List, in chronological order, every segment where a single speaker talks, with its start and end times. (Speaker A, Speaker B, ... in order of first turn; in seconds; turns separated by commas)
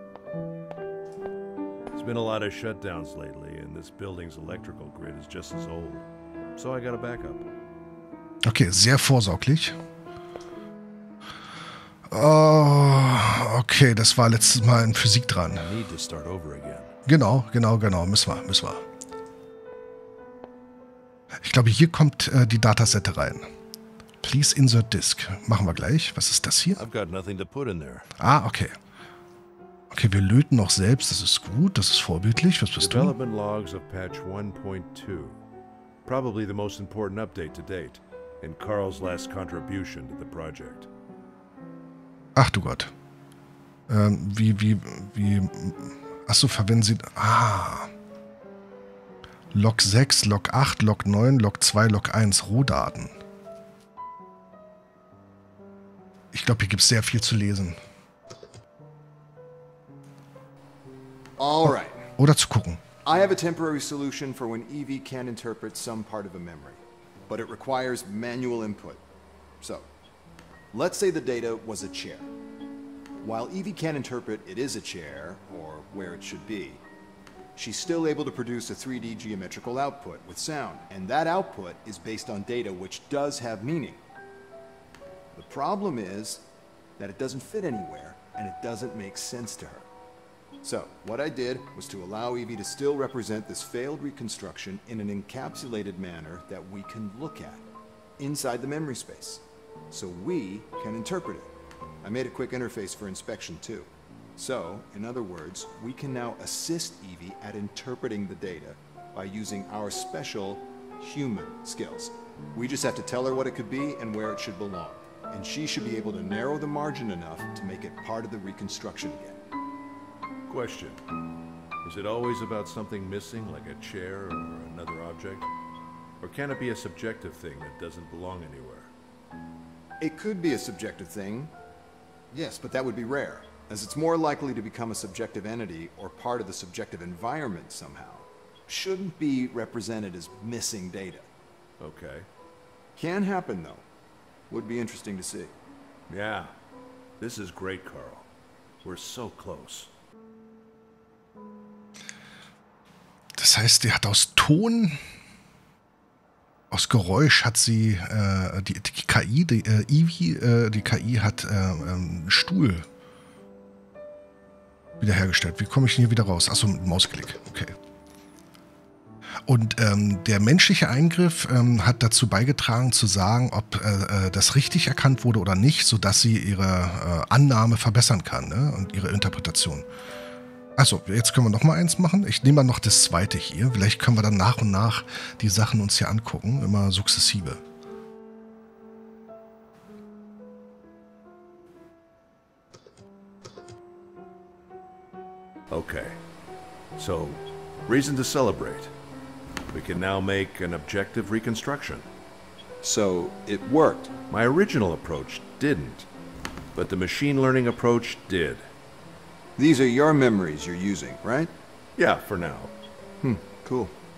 Speaker A: 1.9-7.5, Speaker B: 8.4-9.8, Speaker B: 12.1-15.7, Speaker A: 15.5-16.9, Speaker B: 17.1-18.8, Speaker B: 21.4-23.4, Speaker B: 24.2-26.8, Speaker A: 26.8-28.1, Speaker B: 28.2-28.8, Speaker B: 29.9-33.1, Speaker A: 32.8-35.4, Speaker A: 36.0-40.9, Speaker B: 42.3-42.9, Speaker B: 43.9-47.9, Speaker B: 49.5-53.1, Speaker B: 56.3-57.8, Speaker C: 61.4-62.1, Speaker B: 61.6-62.8, Speaker C: 63.0-69.0, Speaker C: 69.6-69.9, Speaker C: 70.7-72.3, Speaker C: 73.2-76.8, Speaker C: 77.5-84.0, Speaker C: 85.3-86.5, Speaker C: 87.0-89.8, Speaker C: 90.6-97.7, Speaker C: 98.2-101.5, Speaker C: 102.0-119.4, Speaker A: 120.5-121.0, Speaker A: 121.8-125.5, Speaker A: 126.2-128.9, Speaker C: 130.0-131.5, Speaker C: 132.3-141.3, Speaker A: 141.8-142.3, Speaker C: 142.9-143.8, Speaker C: 144.5-145.5, Speaker A: 146.1-146.5, Speaker A: 147.2-148.3, Speaker A: 148.8-149.9, Speaker B: 153.4-155.0, Speaker B: 156.7-162.9, Speaker B: 165.0-167.7, Speaker B: 169.5-179.8, Speaker B: 180.8-187.6, Speaker A: 195.7-196.2, Speaker A: 196.9-198.9, Speaker A: 199.7-202.1, Speaker C: 202.8-204.1, Speaker A: 204.3-206.1, Speaker A: 206.7-208.7, Speaker C: 209.6-211.5, Speaker A: 211.9-212.7, Speaker C: 213.2-213.9